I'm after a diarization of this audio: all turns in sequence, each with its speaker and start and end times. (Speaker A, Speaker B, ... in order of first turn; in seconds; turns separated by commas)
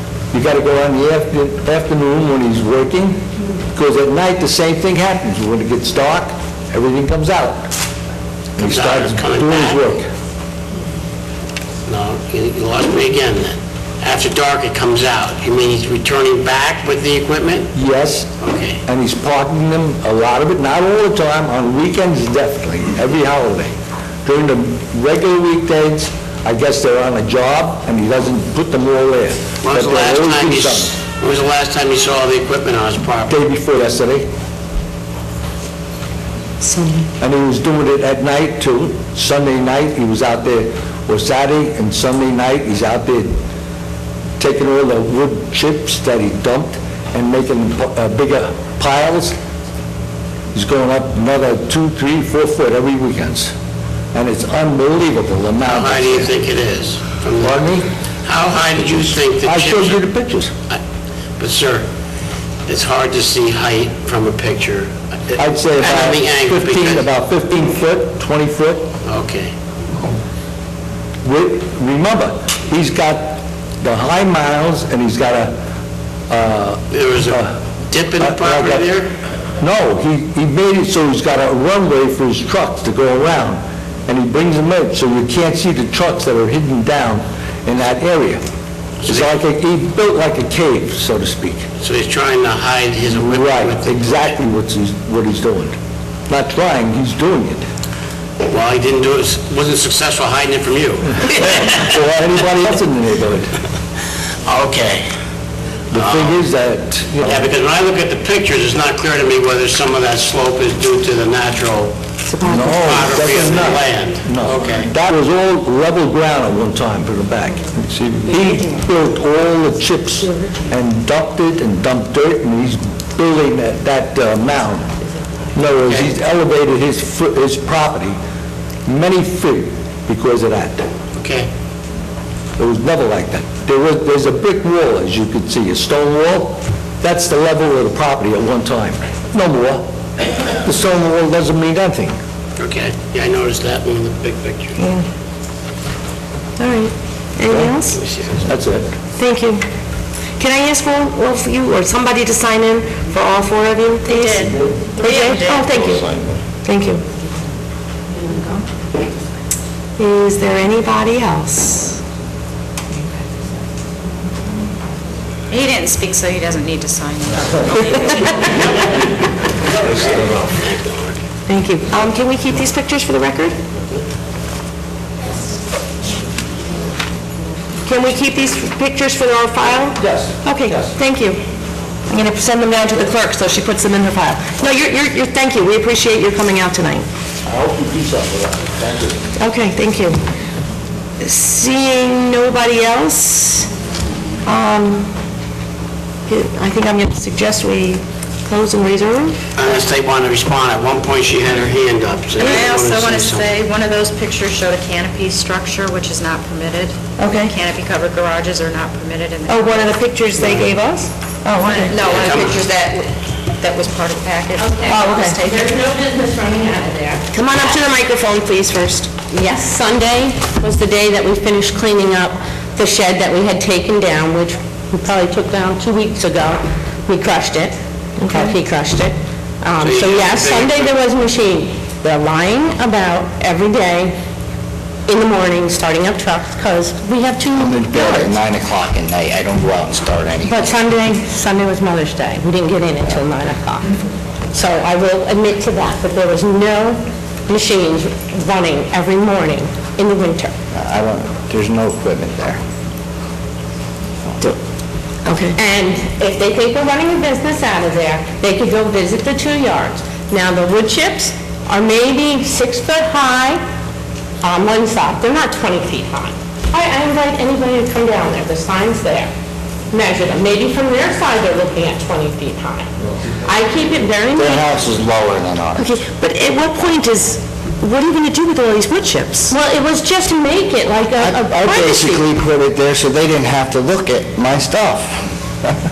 Speaker A: 0.3-7.7, Speaker A: 8.6-10.1, Speaker B: 8.6-9.8, Speaker B: 11.9-17.7, Speaker A: 17.7-18.3, Speaker B: 18.4-18.8, Speaker A: 18.8-23.7, Speaker A: 24.2-30.9, Speaker B: 29.6-33.4, Speaker A: 33.3-34.3, Speaker C: 36.6-37.1, Speaker A: 37.2-43.4, Speaker A: 44.4-49.4, Speaker A: 50.5-53.5, Speaker A: 54.1-56.3, Speaker B: 55.6-57.6, Speaker A: 57.4-57.9, Speaker B: 58.2-60.0, Speaker A: 59.4-60.5, Speaker B: 61.4-61.9, Speaker B: 62.7-67.1, Speaker A: 65.4-68.9, Speaker B: 69.0-69.5, Speaker A: 71.2-75.6, Speaker A: 76.3-77.5, Speaker B: 76.9-79.1, Speaker A: 78.2-78.8, Speaker A: 79.6-88.4, Speaker A: 89.0-91.6, Speaker B: 91.8-94.2, Speaker A: 93.2-95.8, Speaker A: 96.3-97.6, Speaker B: 98.4-101.9, Speaker A: 101.6-103.5, Speaker B: 104.5-105.0, Speaker A: 105.9-107.5, Speaker B: 105.9-106.4, Speaker B: 107.2-111.9, Speaker C: 112.3-113.0, Speaker A: 112.4-124.9, Speaker B: 112.7-114.9, Speaker A: 125.5-128.2, Speaker A: 128.8-130.9, Speaker B: 131.1-131.5, Speaker A: 132.6-139.9, Speaker A: 140.5-142.2, Speaker B: 142.6-144.8, Speaker C: 144.8-145.1, Speaker C: 146.6-148.0, Speaker A: 147.5-147.8, Speaker B: 147.9-148.4, Speaker A: 148.4-148.9, Speaker C: 149.2-149.6, Speaker C: 150.4-156.0, Speaker D: 154.1-155.7, Speaker E: 155.8-156.4, Speaker C: 156.6-157.0, Speaker C: 160.0-162.0, Speaker D: 165.5-168.7, Speaker B: 169.7-171.2, Speaker C: 171.5-173.6, Speaker C: 177.8-181.4, Speaker A: 179.9-181.0, Speaker C: 182.1-187.1, Speaker A: 187.4-189.3, Speaker C: 189.4-190.2, Speaker C: 191.2-193.7, Speaker C: 194.4-195.1, Speaker C: 196.3-199.4, Speaker B: 199.6-203.5, Speaker D: 202.4-210.0, Speaker C: 202.4-202.7, Speaker C: 207.2-207.6, Speaker C: 209.5-212.1, Speaker B: 210.3-210.7, Speaker D: 211.5-213.1, Speaker B: 212.0-212.7, Speaker D: 213.6-215.7, Speaker F: 214.6-217.2, Speaker C: 214.8-215.4, Speaker C: 217.3-219.1, Speaker F: 219.3-227.7, Speaker C: 228.2-228.6, Speaker F: 228.3-234.1, Speaker B: 229.8-231.0, Speaker F: 235.1-238.3, Speaker E: 237.5-240.7, Speaker F: 240.4-243.9, Speaker F: 244.5-250.5, Speaker E: 250.7-252.6, Speaker C: 255.2-255.6, Speaker F: 255.5-263.6, Speaker F: 264.4-269.3, Speaker F: 269.9-272.9, Speaker F: 273.4-274.7, Speaker E: 274.3-275.9, Speaker C: 275.8-279.6, Speaker F: 279.5-282.2, Speaker E: 281.2-285.7